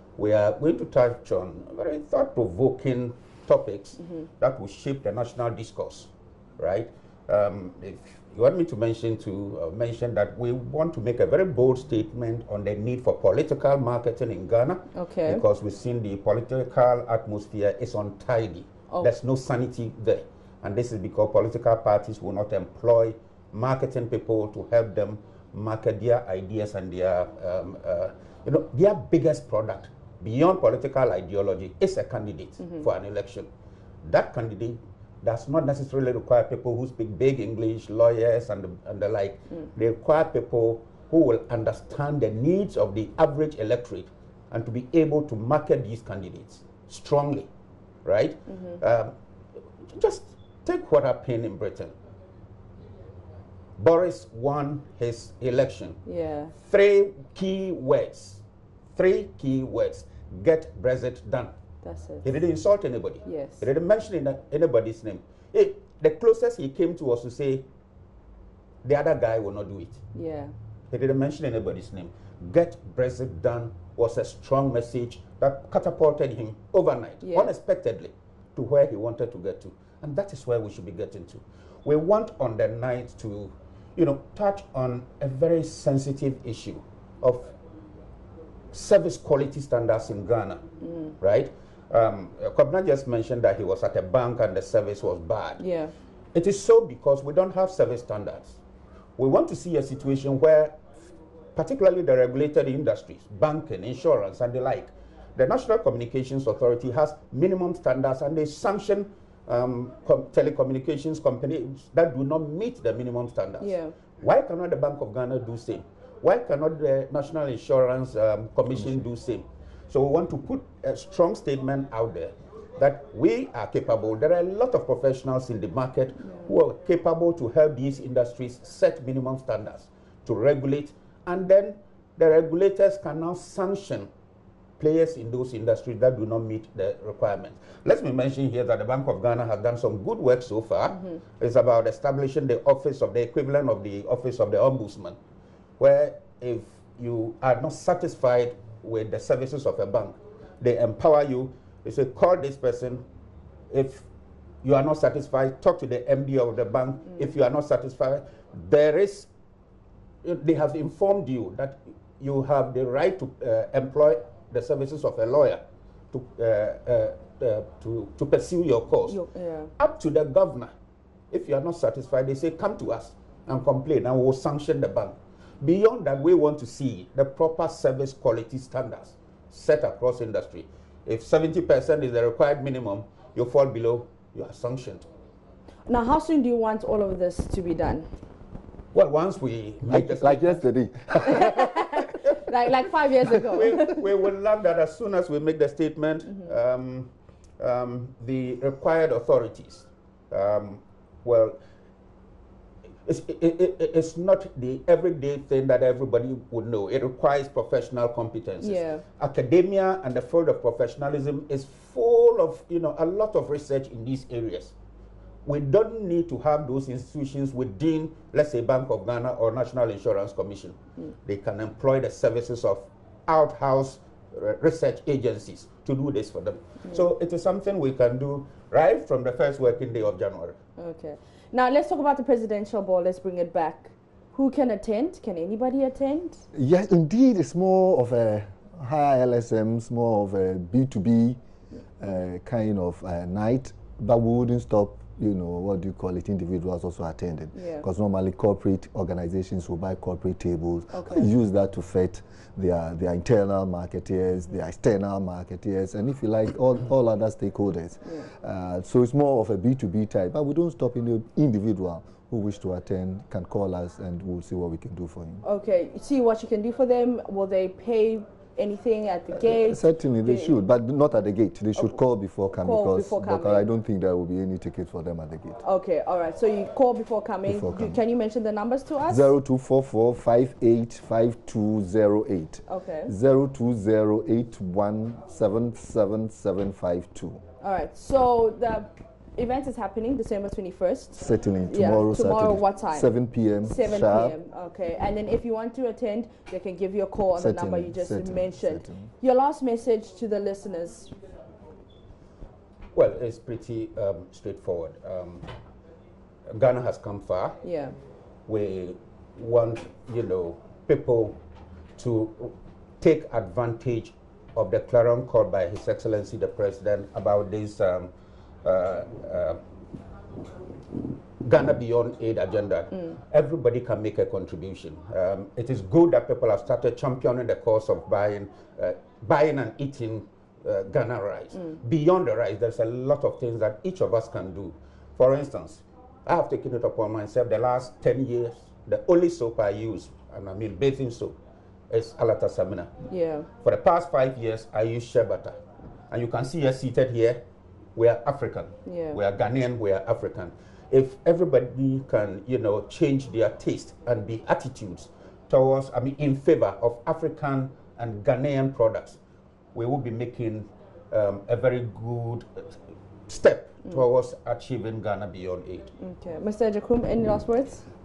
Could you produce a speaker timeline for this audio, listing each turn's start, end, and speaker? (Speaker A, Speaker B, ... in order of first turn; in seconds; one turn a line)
Speaker A: 0.2-33.5
Speaker B: 14.9-15.4
Speaker A: 34.0-47.5
Speaker A: 48.0-49.1
Speaker B: 48.5-48.8
Speaker A: 49.9-51.9
Speaker A: 53.8-56.0
Speaker B: 56.1-56.5
Speaker A: 56.6-58.4
Speaker A: 58.9-61.5
Speaker B: 61.8-62.3
Speaker A: 62.2-67.7
Speaker B: 63.2-63.7
Speaker A: 68.8-70.0
Speaker B: 70.1-70.5
Speaker A: 70.9-87.5
Speaker B: 77.2-77.5
Speaker A: 88.7-90.6
Speaker B: 90.8-91.1
Speaker A: 91.2-95.6
Speaker B: 95.6-95.9
Speaker A: 96.3-98.6
Speaker A: 99.2-100.8
Speaker A: 101.5-134.1
Speaker B: 113.6-113.9
Speaker A: 134.8-145.2
Speaker A: 145.8-153.1
Speaker A: 153.7-154.1
Speaker A: 154.6-159.3
Speaker A: 160.2-169.2
Speaker B: 169.1-169.7
Speaker A: 169.8-170.7
Speaker A: 171.3-185.1
Speaker B: 185.9-188.1
Speaker A: 188.9-190.7
Speaker C: 189.9-192.1
Speaker B: 191.3-194.0
Speaker A: 193.3-201.6
Speaker A: 203.1-214.7
Speaker B: 208.6-209.0
Speaker A: 215.4-230.6
Speaker B: 230.8-236.4
Speaker C: 236.5-241.4
Speaker C: 242.0-265.4
Speaker B: 247.6-247.8
Speaker B: 250.9-251.3
Speaker B: 265.4-270.6
Speaker C: 269.3-275.6
Speaker B: 272.6-273.7
Speaker B: 275.6-279.3
Speaker C: 277.5-278.0
Speaker C: 279.1-287.4
Speaker B: 282.7-283.1
Speaker B: 287.6-301.1
Speaker C: 291.1-294.4
Speaker C: 297.4-299.1
Speaker A: 302.9-305.5
Speaker A: 306.5-307.6
Speaker B: 307.6-307.9
Speaker A: 308.5-311.4
Speaker A: 312.0-318.1
Speaker A: 318.6-319.6
Speaker A: 321.4-341.4
Speaker A: 341.9-343.0
Speaker B: 343.1-343.5
Speaker A: 343.6-347.4
Speaker A: 348.0-359.2
Speaker B: 348.9-349.2
Speaker A: 359.8-362.7
Speaker A: 363.3-365.9
Speaker B: 366.0-367.8